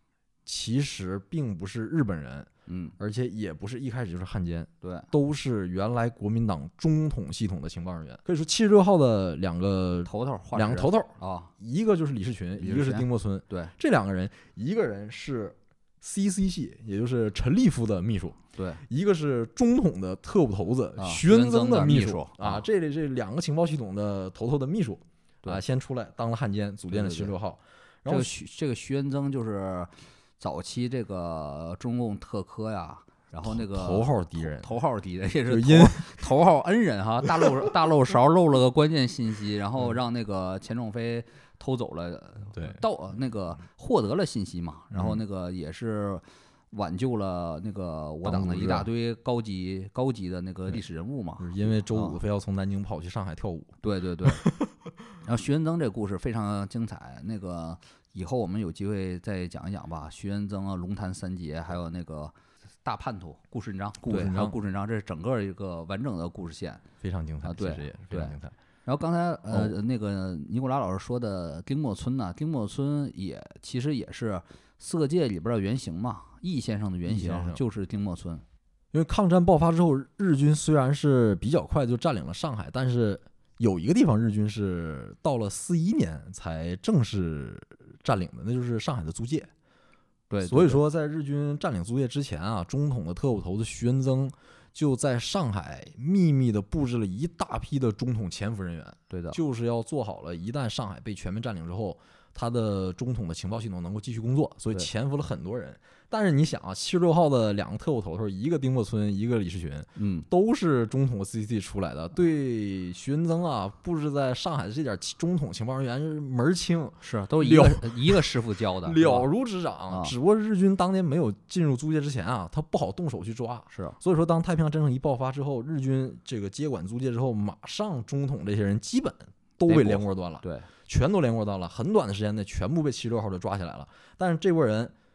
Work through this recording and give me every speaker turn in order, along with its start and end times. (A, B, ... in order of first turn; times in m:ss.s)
0:00.5-0:28.3 A
0:02.7-0:03.0 B
0:04.8-0:05.1 B
0:10.1-0:11.5 B
0:12.6-0:13.7 B
0:18.6-0:18.8 B
0:21.0-0:22.6 B
0:26.9-0:27.3 B
0:28.1-0:52.2 B
0:33.4-0:34.7 A
0:35.5-0:36.2 A
0:42.5-0:42.8 A
0:44.9-0:45.2 A
0:48.2-0:48.9 A
0:51.4-0:54.7 A
0:53.8-0:54.4 B
0:55.2-1:06.8 B
1:04.0-1:04.6 A
1:07.0-1:08.6 A
1:07.4-1:18.4 B
1:09.5-1:09.8 A
1:17.1-1:17.6 A
1:18.9-1:29.5 A
1:30.3-1:30.8 B
1:30.4-1:58.3 A
1:39.1-1:39.4 B
1:50.0-1:50.3 B
1:57.0-1:59.3 B
1:58.8-2:14.9 A
2:03.7-2:04.0 B
2:09.7-2:10.7 B